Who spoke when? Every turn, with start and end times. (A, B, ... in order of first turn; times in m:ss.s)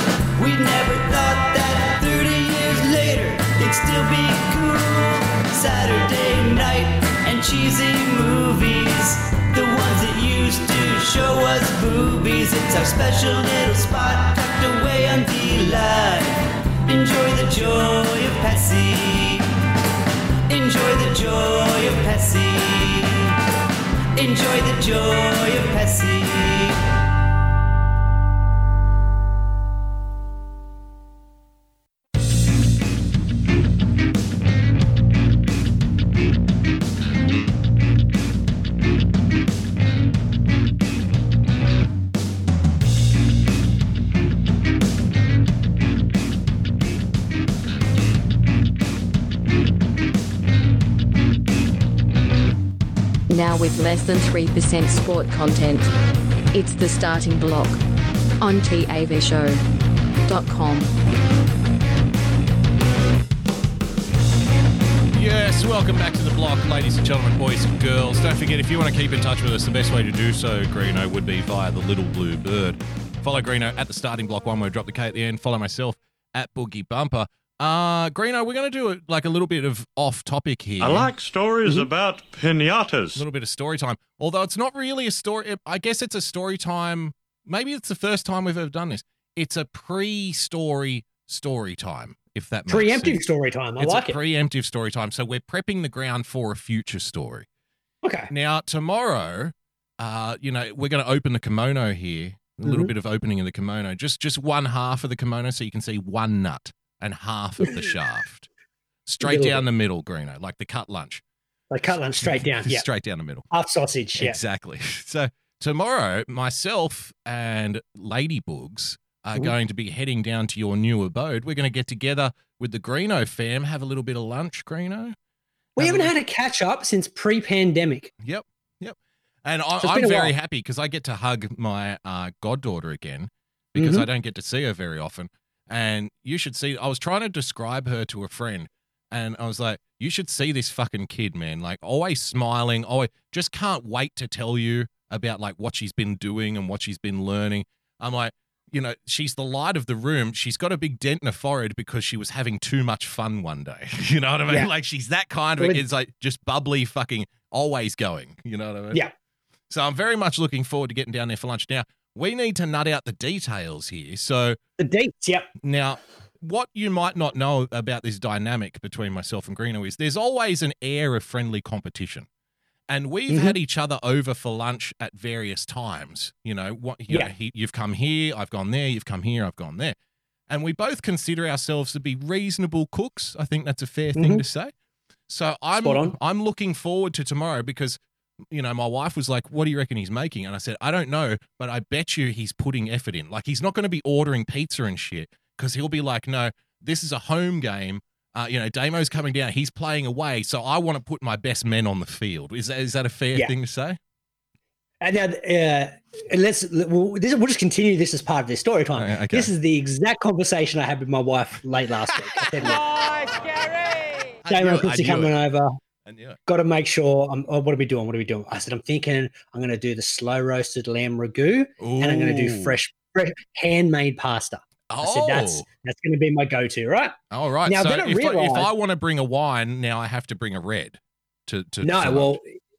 0:00.4-0:19.5 A
0:20.5-0:23.4 A
0:24.2-0:26.8 A
0:53.3-0:55.9 B
0:56.5-0:57.8 B
0:58.4-0:59.6 B
1:00.3-1:00.9 B
1:05.1-1:21.1 C
1:20.8-1:23.2 D
1:21.6-1:21.9 E
1:23.2-1:33.2 C
1:32.7-1:34.2 E
1:33.8-1:37.5 C
1:38.0-1:38.3 E
1:38.3-1:48.5 C
1:42.6-1:42.9 E
1:49.1-1:51.2 C
1:49.2-1:49.6 E
1:51.7-1:52.8 E
1:52.2-1:53.5 C
1:53.5-1:54.4 E
1:54.2-2:05.2 C
2:05.8-2:08.1 E
2:05.8-2:06.1 C
2:08.2-2:39.0 C
2:09.8-2:10.3 E
2:13.8-2:14.1 E
2:39.7-2:44.6 C
2:44.8-2:45.5 E
2:45.6-2:52.3 C
2:52.9-3:00.0 C
2:53.3-2:53.6 E
3:00.5-3:04.7 C
3:04.2-3:04.4 E
3:05.3-3:08.0 C
3:05.8-3:06.2 E
3:08.5-3:24.0 C
3:25.0-3:32.8 E
3:29.0-3:29.5 C
3:34.4-3:35.4 C
3:34.5-3:35.7 E
3:36.1-3:36.4 C
3:36.5-3:48.7 E
3:41.8-3:42.8 C
3:44.9-3:45.7 C
3:47.3-3:52.4 C
3:51.8-3:52.4 E